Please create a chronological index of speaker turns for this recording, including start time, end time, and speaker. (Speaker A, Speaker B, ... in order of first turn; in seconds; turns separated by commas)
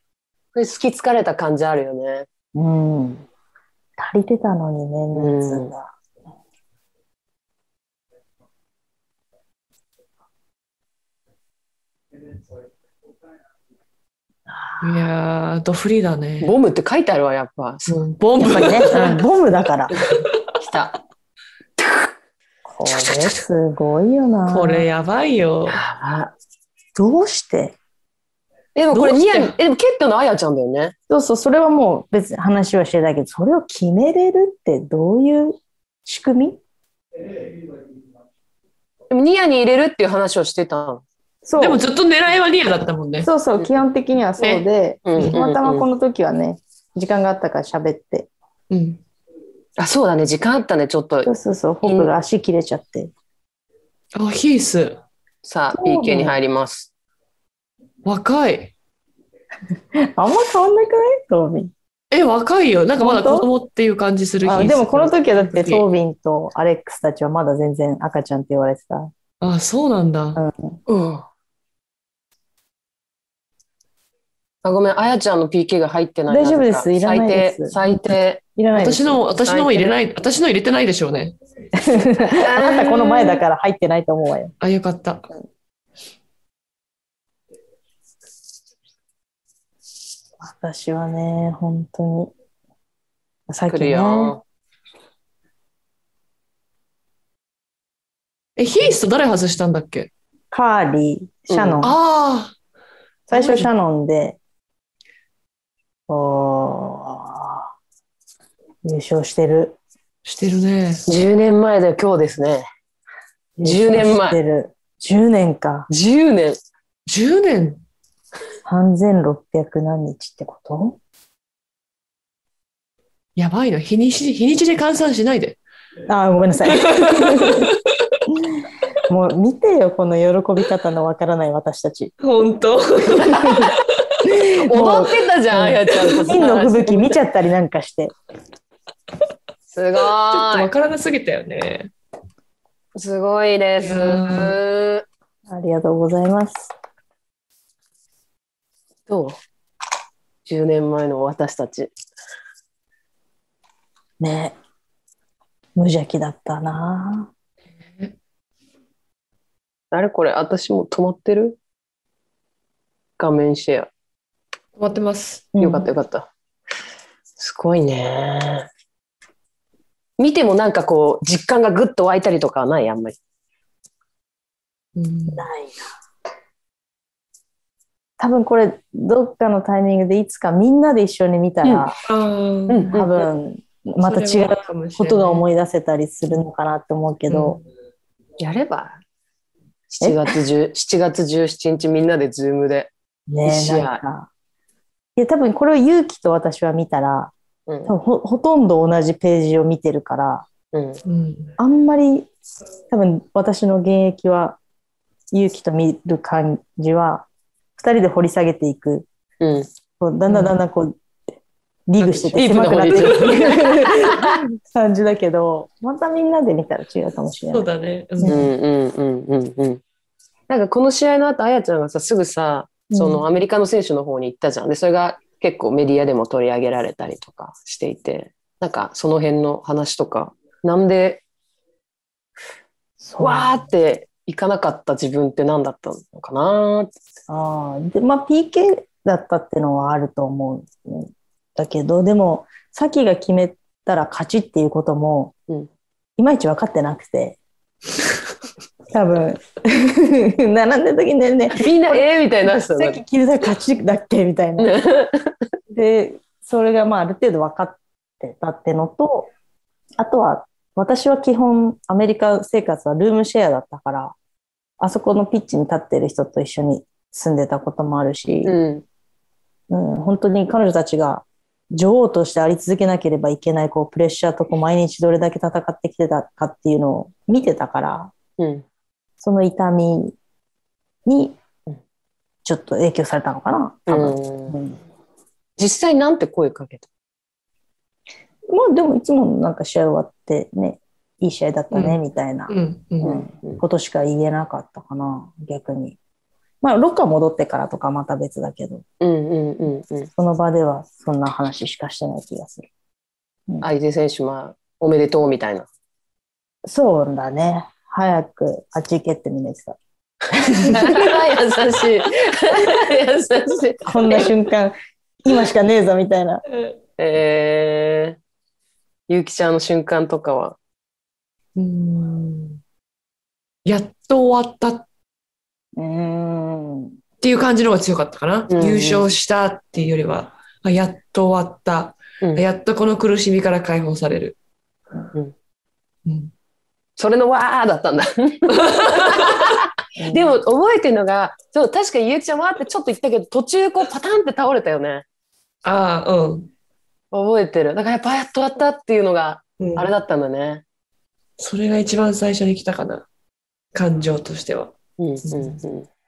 Speaker A: 0.5-2.3, Speaker B: 2.5-3.2, Speaker B: 4.0-5.9, Speaker A: 5.1-5.7, Speaker B: 14.5-15.1, Speaker C: 14.8-16.5, Speaker A: 16.4-18.8, Speaker C: 17.9-19.2, Speaker B: 18.4-19.9, Speaker C: 19.9-20.2, Speaker A: 20.6-20.9, Speaker A: 21.8-22.1, Speaker B: 22.6-24.9, Speaker C: 23.0-23.4, Speaker C: 24.5-25.8, Speaker A: 25.7-26.3, Speaker B: 26.9-27.8, Speaker A: 28.7-30.9, Speaker C: 28.9-29.6, Speaker B: 31.1-36.6, Speaker A: 39.1-41.0, Speaker B: 41.4-41.8, Speaker C: 41.6-43.3, Speaker B: 43.2-48.3, Speaker C: 44.4-44.6, Speaker A: 45.0-45.8, Speaker C: 48.7-49.0, Speaker A: 49.8-51.3, Speaker B: 51.2-53.1, Speaker C: 54.1-55.0, Speaker A: 55.4-56.9, Speaker B: 55.7-56.3, Speaker C: 58.0-58.7, Speaker B: 59.9-61.7, Speaker C: 62.1-65.8, Speaker B: 63.0-63.5, Speaker B: 64.4-69.1, Speaker C: 69.4-70.4, Speaker B: 70.3-70.8, Speaker A: 70.9-71.3, Speaker A: 74.6-78.4, Speaker B: 76.3-77.8, Speaker B: 78.5-79.2, Speaker C: 78.7-81.3, Speaker A: 79.3-80.0, Speaker B: 81.7-84.5, Speaker A: 82.3-83.4, Speaker C: 84.6-85.3, Speaker B: 90.4-92.3, Speaker B: 93.5-94.4, Speaker A: 93.7-94.4, Speaker C: 98.6-100.1, Speaker B: 100.5-102.0, Speaker A: 101.5-101.9, Speaker C: 101.8-102.5, Speaker B: 103.3-104.4, Speaker C: 103.3-103.7, Speaker B: 106.1-107.7, Speaker B: 108.8-109.8, Speaker C: 110.2-111.0, Speaker A: 111.1-112.7, Speaker B: 113.6-115.9, Speaker A: 113.6-114.4, Speaker A: 115.9-116.6, Speaker C: 117.1-117.8, Speaker B: 118.7-121.0, Speaker C: 123.3-125.6, Speaker B: 126.1-127.7, Speaker C: 126.7-127.8, Speaker B: 128.3-132.1, Speaker C: 132.2-133.6, Speaker A: 133.1-133.8, Speaker B: 133.4-133.7, Speaker B: 134.2-138.1, Speaker A: 134.6-137.2, Speaker A: 139.7-140.7, Speaker C: 140.3-141.9, Speaker A: 142.9-145.0, Speaker C: 143.8-144.6, Speaker B: 145.5-146.7, Speaker A: 149.1-149.4, Speaker A: 150.4-151.9, Speaker B: 154.2-154.6, Speaker B: 155.8-157.3, Speaker C: 157.8-158.1, Speaker A: 159.9-161.6, Speaker A: 163.2-163.9, Speaker C: 164.8-165.5, Speaker B: 165.5-165.9, Speaker A: 165.6-166.3, Speaker A: 167.4-168.7, Speaker A: 170.2-173.2, Speaker C: 174.9-175.5, Speaker B: 175.3-175.8, Speaker B: 178.2-182.0, Speaker C: 182.1-182.9, Speaker A: 182.7-183.2, Speaker B: 182.9-187.6, Speaker C: 184.0-185.4, Speaker C: 187.3-187.6, Speaker A: 188.4-189.0, Speaker A: 189.9-192.9, Speaker B: 193.3-194.3, Speaker A: 193.4-194.0, Speaker B: 195.2-197.3, Speaker A: 197.7-197.9, Speaker B: 197.9-200.5, Speaker A: 200.7-201.0, Speaker C: 201.1-201.5, Speaker B: 201.6-202.3, Speaker B: 202.9-204.6, Speaker B: 205.3-207.2, Speaker B: 207.8-209.1, Speaker A: 209.4-209.7, Speaker B: 210.0-211.0, Speaker C: 210.3-210.5, Speaker B: 211.9-218.5, Speaker C: 212.0-213.9, Speaker A: 212.3-214.3, Speaker C: 217.5-218.5, Speaker A: 218.2-219.8, Speaker A: 220.5-231.2, Speaker B: 222.9-223.2, Speaker B: 233.0-233.6, Speaker A: 233.2-236.9, Speaker B: 237.3-245.3, Speaker B: 246.2-247.4, Speaker B: 248.9-254.7, Speaker A: 251.5-253.0, Speaker A: 254.6-255.3, Speaker B: 255.7-259.3, Speaker B: 260.0-264.1, Speaker B: 264.8-268.5, Speaker A: 268.4-268.8, Speaker B: 269.7-278.1, Speaker A: 278.4-278.6, Speaker B: 279.2-280.1, Speaker B: 281.1-281.4, Speaker B: 282.4-284.8, Speaker A: 283.9-284.6, Speaker A: 285.6-286.9, Speaker B: 288.5-296.0, Speaker C: 291.7-293.2, Speaker B: 296.6-298.8, Speaker A: 299.0-300.1, Speaker B: 300.2-302.7, Speaker A: 303.6-305.7, Speaker B: 306.6-309.8, Speaker B: 310.3-311.1, Speaker A: 310.7-314.3, Speaker B: 313.8-316.4, Speaker A: 317.0-318.2, Speaker A: 319.1-320.6, Speaker C: 321.6-322.6, Speaker C: 323.6-324.9, Speaker B: 325.8-326.9, Speaker C: 327.2-334.4, Speaker A: 328.5-329.1, Speaker C: 336.1-336.3, Speaker A: 337.0-345.0, Speaker C: 338.8-339.3, Speaker B: 340.0-340.3, Speaker C: 345.6-346.5, Speaker A: 347.1-350.6, Speaker C: 349.6-349.9, Speaker C: 351.4-353.1, Speaker C: 353.7-354.7, Speaker A: 355.0-355.9, Speaker C: 355.3-355.6